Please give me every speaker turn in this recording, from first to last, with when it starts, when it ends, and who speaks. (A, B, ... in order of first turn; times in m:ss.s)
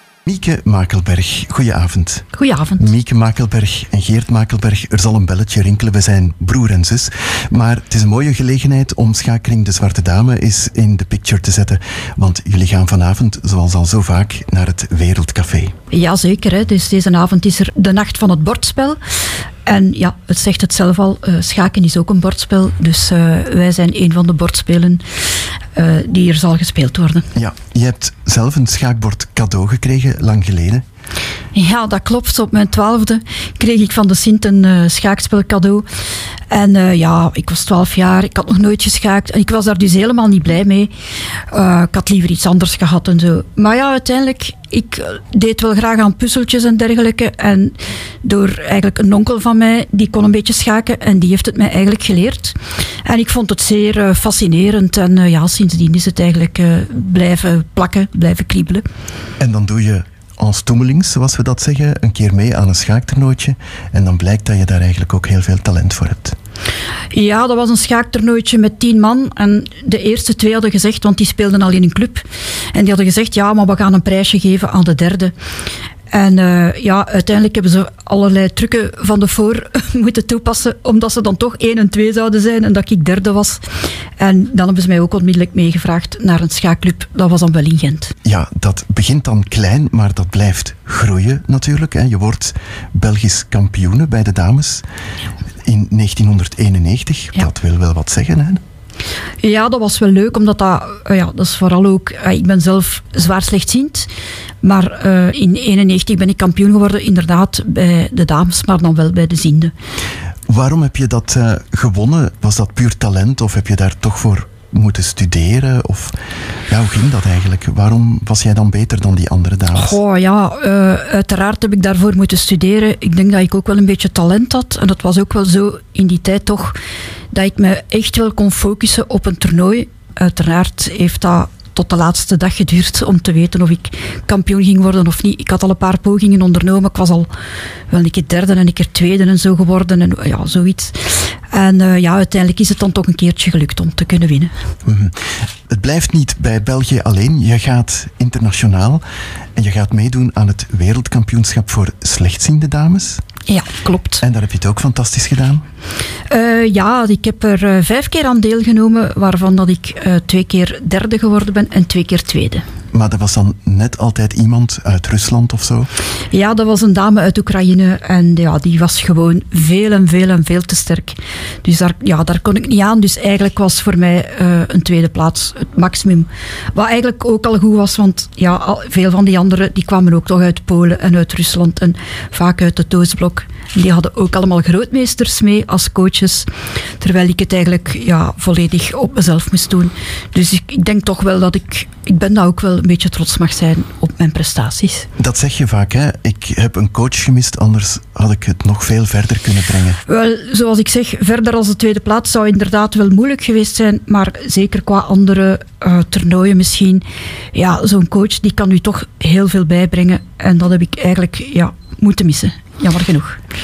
0:00.2-0:15.7 A
0:02.3-0:02.9 B
0:15.9-0:19.0 B
0:19.6-0:25.0 B
0:25.7-0:27.3 B
0:27.3-0:30.8 A
0:31.5-0:35.9 B
0:36.5-0:40.9 B
0:41.5-0:58.8 B
0:59.4-1:06.4 A
1:07.1-1:15.3 B
1:16.1-1:23.6 B
1:24.2-1:28.1 B
1:28.2-1:34.8 A
1:35.6-1:38.6 A
1:39.4-1:44.1 B
1:44.6-1:49.7 B
1:50.5-1:56.2 A
1:56.7-2:00.0 A
1:59.8-2:06.8 B
2:07.3-2:17.3 B
2:17.9-2:24.6 B
2:24.8-2:25.1 A
2:25.7-2:29.0 A
2:29.6-2:33.2 A
2:33.4-2:34.2 B
2:34.2-2:35.6 A
2:36.3-2:42.6 B
2:42.9-2:45.9 A
2:46.3-3:15.1 B
3:15.2-3:20.0 A
3:20.0-3:33.4 B